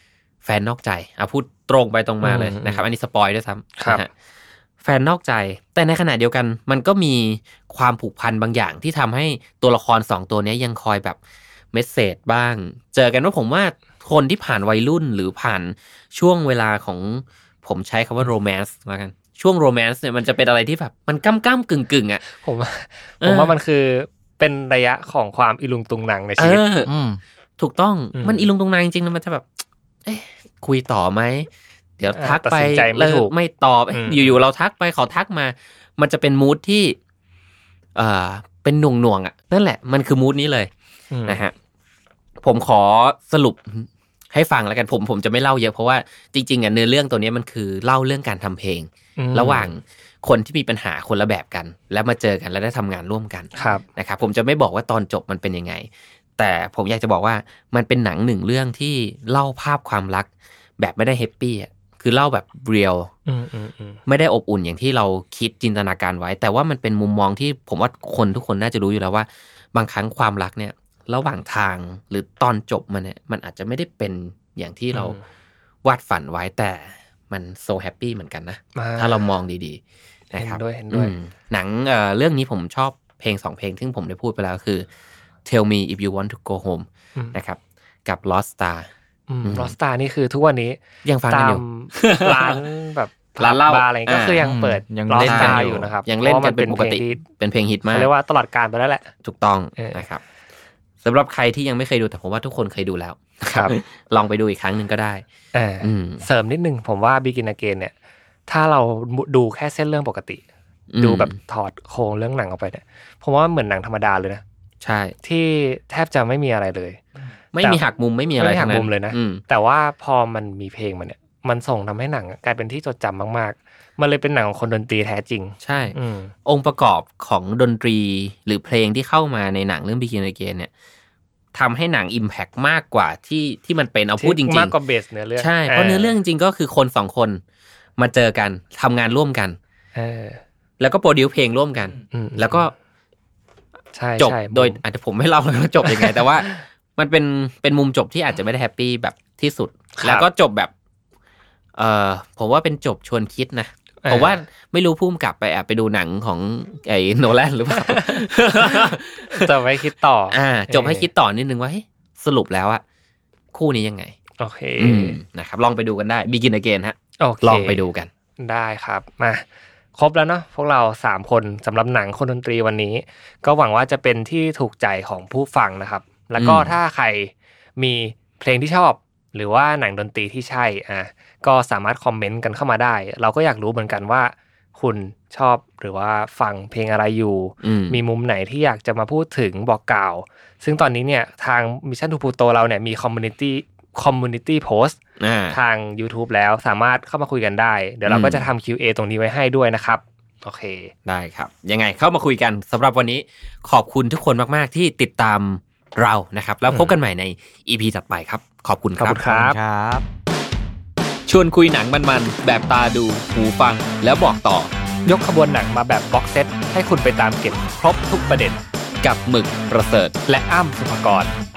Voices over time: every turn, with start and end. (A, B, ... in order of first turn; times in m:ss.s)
0:00.4-0:04.1 A
0:02.2-0:02.8 B
0:03.8-0:04.0 B
0:04.8-0:11.2 A
0:11.7-0:22.2 A
0:22.3-0:26.6 B
0:23.2-0:23.5 A
0:26.4-0:26.9 A
0:26.9-0:27.2 C
0:27.6-0:29.5 A
0:28.2-0:28.5 B
0:30.1-0:31.5 A
0:32.0-0:37.0 A
0:32.2-0:33.3 B
0:33.9-0:34.4 B
0:38.0-0:40.7 A
0:41.1-0:41.4 B
0:41.3-0:41.5 A
0:42.4-1:00.3 A
0:49.2-0:49.7 B
0:53.6-0:53.8 B
1:00.8-1:03.1 A
1:03.3-1:04.0 B
1:04.1-1:15.2 A
1:14.9-1:15.2 B
1:15.8-1:19.8 A
1:18.8-1:19.3 B
1:20.3-1:24.9 A
1:20.4-1:21.1 B
1:25.4-1:28.9 A
1:29.3-1:37.2 B
1:29.4-1:29.8 A
1:31.0-1:32.6 A
1:33.4-1:34.4 A
1:34.4-1:35.9 C
1:35.2-1:38.1 A
1:37.9-1:39.1 B
1:39.2-1:40.2 A
1:39.8-1:40.0 B
1:41.0-1:45.2 A
1:45.5-1:47.9 B
1:45.8-1:46.2 A
1:48.5-1:50.4 B
1:50.9-1:51.4 A
1:51.0-1:54.4 B
1:54.8-1:55.2 A
1:55.2-1:57.0 B
1:57.5-1:59.4 A
1:58.4-2:06.3 B
2:05.6-2:10.7 A
2:11.5-2:14.7 A
2:14.2-2:16.2 B
2:15.4-2:17.4 A
2:18.0-2:19.6 A
2:20.0-2:20.4 B
2:20.8-2:22.7 A
2:22.1-2:22.7 B
2:23.9-2:24.8 B
2:24.2-2:30.7 A
2:25.8-2:26.6 B
2:30.0-2:30.2 B
2:31.8-2:39.5 A
2:34.0-2:34.4 B
2:37.7-2:41.1 B
2:40.3-2:42.8 A
2:43.5-2:44.2 A
2:44.4-2:45.2 B
2:44.8-2:48.1 A
2:47.2-2:47.8 B
2:48.4-2:49.4 B
2:50.0-3:15.0 B
2:56.4-2:56.8 A
3:07.6-3:08.0 A
3:15.2-3:15.6 A
3:15.5-3:20.9 B
3:18.1-3:18.5 A
3:21.1-3:29.2 A
3:29.0-3:29.6 B
3:29.2-3:30.0 C
3:31.3-3:34.7 A
3:35.1-3:38.6 B
3:39.0-3:40.1 A
3:40.3-3:41.3 B